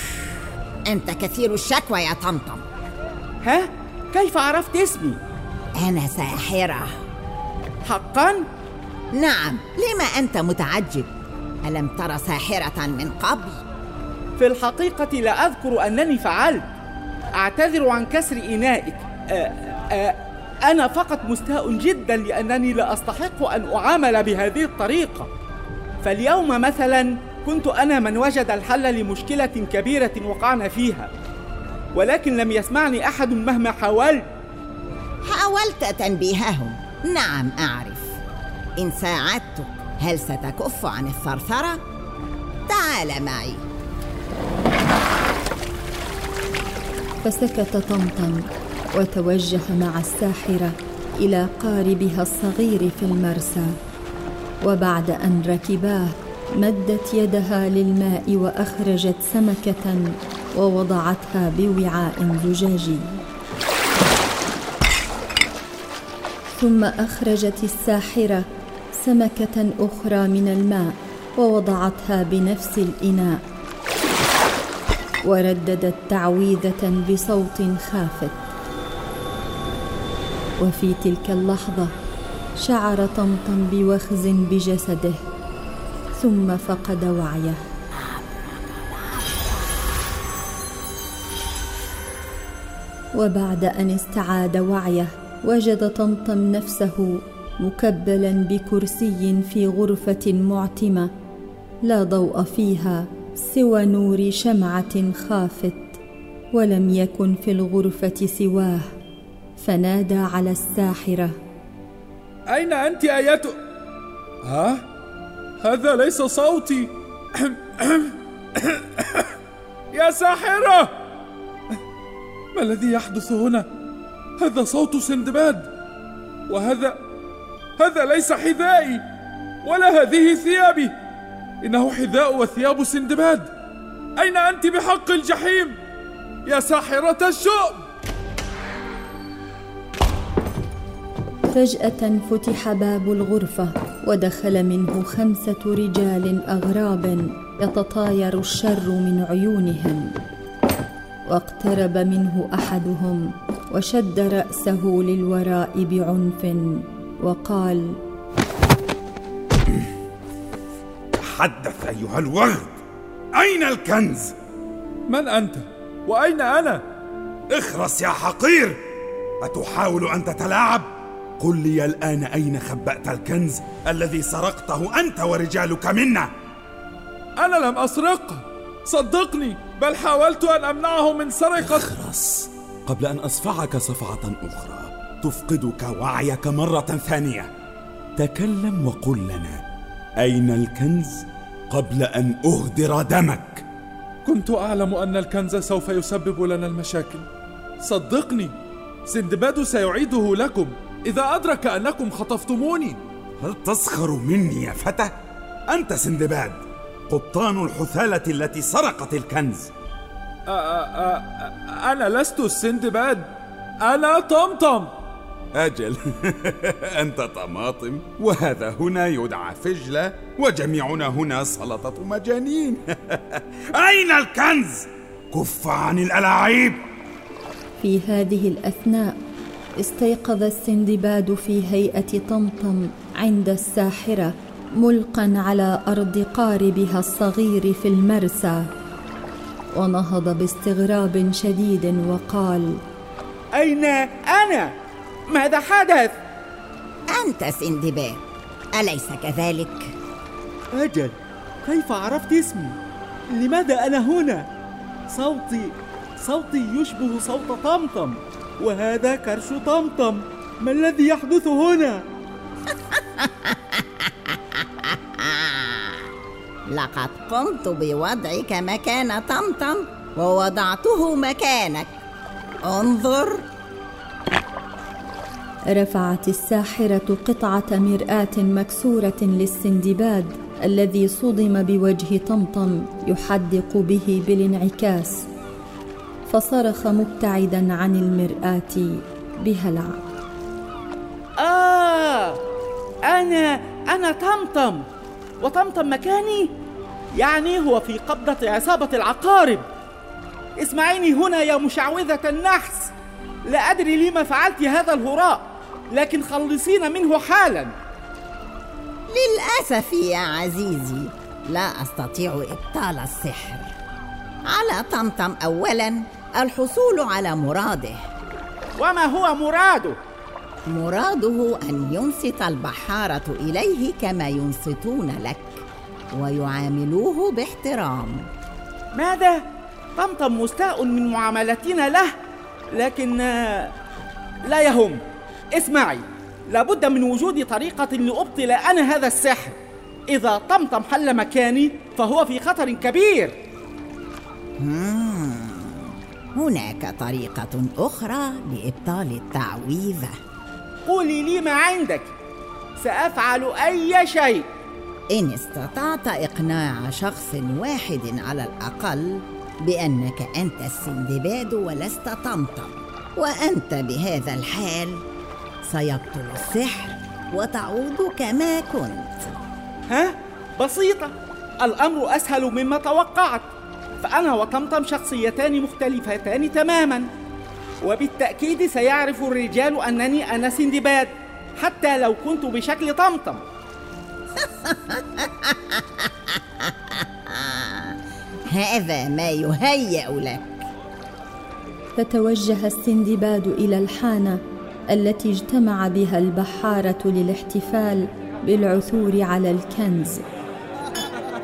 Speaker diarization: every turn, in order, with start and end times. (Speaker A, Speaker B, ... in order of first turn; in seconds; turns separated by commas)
Speaker A: 0.9-2.6, Speaker B: 3.4-5.2, Speaker A: 5.8-6.9, Speaker B: 7.8-8.4, Speaker A: 9.2-11.1, Speaker A: 11.6-13.6, Speaker B: 14.4-16.6, Speaker B: 17.4-25.3, Speaker B: 26.0-31.1, Speaker B: 31.9-34.3, Speaker A: 35.2-38.1, Speaker A: 38.8-41.8, Speaker A: 42.7-43.6, Speaker C: 47.2-48.4, Speaker C: 49.0-53.8, Speaker C: 54.6-63.2, Speaker C: 66.5-68.5, Speaker C: 69.0-73.4, Speaker C: 75.2-78.5, Speaker C: 80.6-81.9, Speaker C: 82.6-85.2, Speaker C: 86.2-87.6, Speaker C: 93.2-101.1, Speaker C: 101.8-106.0, Speaker C: 106.5-108.9, Speaker C: 109.6-111.3, Speaker D: 112.5-113.6, Speaker D: 114.4-114.8, Speaker D: 115.6-119.3, Speaker D: 119.9-120.9, Speaker D: 122.5-123.7, Speaker D: 124.4-125.7, Speaker D: 126.5-127.0, Speaker D: 127.8-129.0, Speaker D: 129.6-130.9, Speaker D: 131.6-133.5, Speaker D: 134.2-135.8, Speaker D: 136.4-137.8, Speaker C: 141.5-150.1, Speaker C: 151.3-158.0, Speaker E: 161.2-162.7, Speaker E: 163.3-164.3, Speaker D: 165.1-166.8, Speaker E: 167.5-168.8, Speaker E: 169.4-170.9, Speaker E: 171.4-176.3, Speaker D: 177.4-181.9, Speaker E: 181.6-187.5, Speaker E: 188.2-189.6, Speaker E: 190.2-193.7, Speaker D: 194.2-197.3, Speaker D: 197.8-198.5, Speaker D: 199.1-203.0, Speaker E: 203.4-205.1, Speaker E: 205.7-209.7, Speaker D: 210.5-213.3, Speaker D: 213.8-214.9, Speaker E: 215.6-226.8, Speaker C: 227.8-229.2, Speaker C: 229.8-238.7, Speaker C: 239.7-242.8, Speaker B: 243.6-244.7, Speaker B: 245.3-246.1, Speaker A: 247.1-248.2, Speaker A: 248.8-249.9, Speaker B: 250.7-252.8, Speaker B: 253.3-254.5, Speaker B: 255.1-262.0, Speaker A: 263.2-263.5, Speaker A: 265.3-265.8, Speaker A: 266.7-271.9, Speaker A: 272.6-273.4, Speaker C: 275.7-285.2, Speaker C: 286.3-290.0, Speaker B: 291.4-292.4, Speaker B: 293.1-294.8, Speaker B: 295.4-296.5, Speaker B: 297.1-299.6, Speaker B: 300.6-302.9, Speaker B: 303.4-307.7, Speaker A: 309.1-313.7, Speaker A: 314.5-318.0, Speaker B: 318.8-320.0, Speaker A: 320.7-325.6, Speaker A: 326.1-328.3, Speaker B: 328.9-329.4, Speaker B: 330.0-332.1, Speaker B: 332.7-333.7, Speaker B: 334.4-335.0, Speaker B: 335.6-339.6, Speaker B: 340.1-343.4, Speaker A: 344.6-345.8, Speaker A: 346.4-350.1, Speaker B: 350.9-352.1, Speaker B: 352.8-354.5, Speaker A: 355.1-365.0, Speaker A: 365.7-369.1, Speaker B: 369.9-373.5, Speaker B: 374.0-377.1, Speaker B: 377.8-383.4, Speaker A: 384.7-385.0, Speaker A: 388.5-390.6, Speaker C: 392.0-400.2